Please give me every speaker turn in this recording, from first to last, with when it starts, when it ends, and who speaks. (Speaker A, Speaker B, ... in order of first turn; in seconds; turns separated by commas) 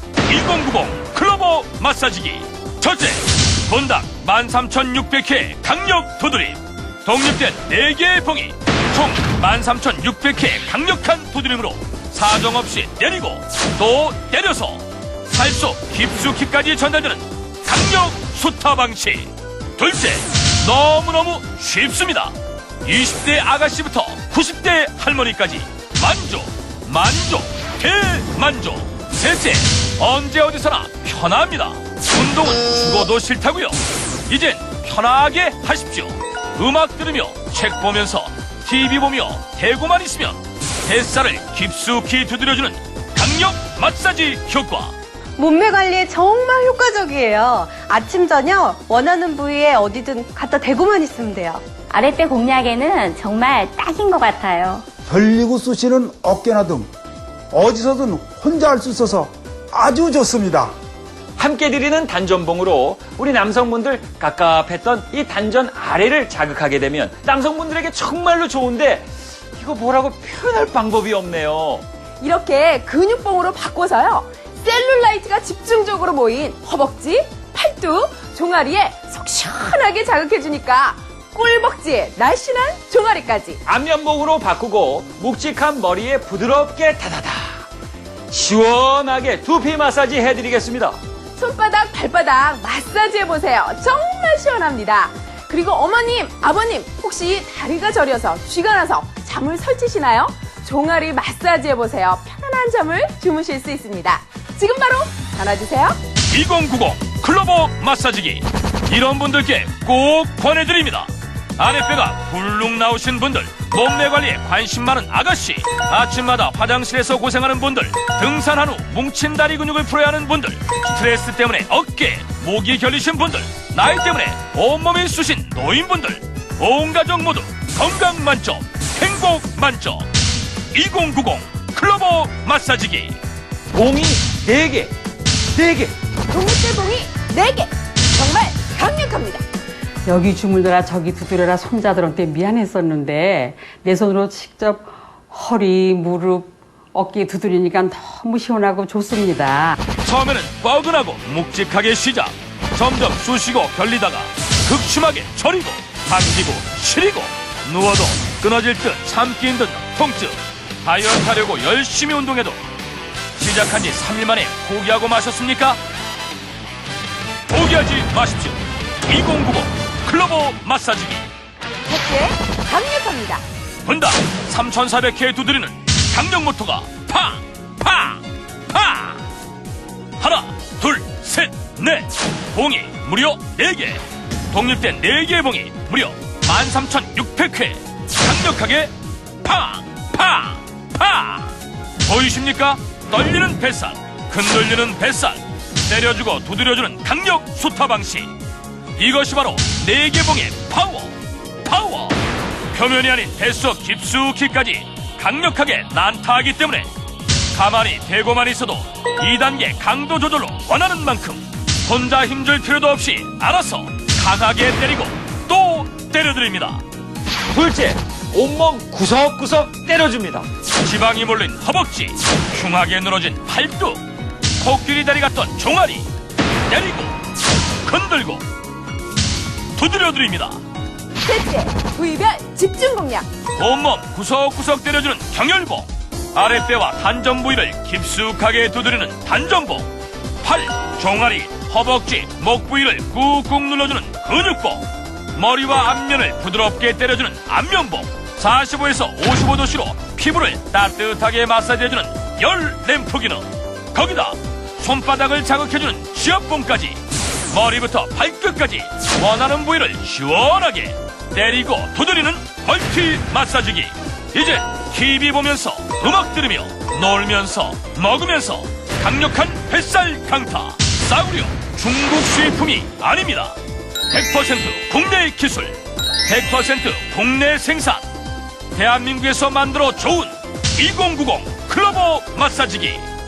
Speaker A: 0.2-44.9, Speaker B: 45.4-51.7, Speaker C: 51.9-54.8, Speaker D: 55.0-56.9, Speaker D: 57.5-60.7, Speaker E: 61.4-71.8, Speaker F: 72.2-83.6, Speaker E: 83.7-87.6, Speaker E: 88.3-91.0, Speaker F: 91.3-106.0, Speaker A: 106.3-130.1, Speaker A: 130.7-133.2, Speaker E: 133.7-134.9, Speaker E: 135.5-135.9, Speaker F: 136.3-139.4, Speaker G: 140.1-149.8, Speaker A: 150.0-162.6, Speaker A: 163.4-165.8, Speaker A: 167.5-171.2, Speaker F: 171.9-173.4, Speaker A: 173.8-179.2, Speaker A: 180.2-198.3, Speaker A: 199.0-202.2, Speaker A: 202.7-206.9, Speaker A: 207.5-216.8, Speaker E: 217.5-220.5, Speaker A: 220.8-224.0, Speaker A: 224.6-226.1, Speaker A: 226.7-227.2, Speaker A: 227.8-228.4, Speaker A: 229.7-230.6, Speaker F: 231.2-233.3, Speaker A: 233.6-239.9, Speaker A: 240.4-273.6, Speaker A: 274.1-278.0, Speaker A: 278.7-283.1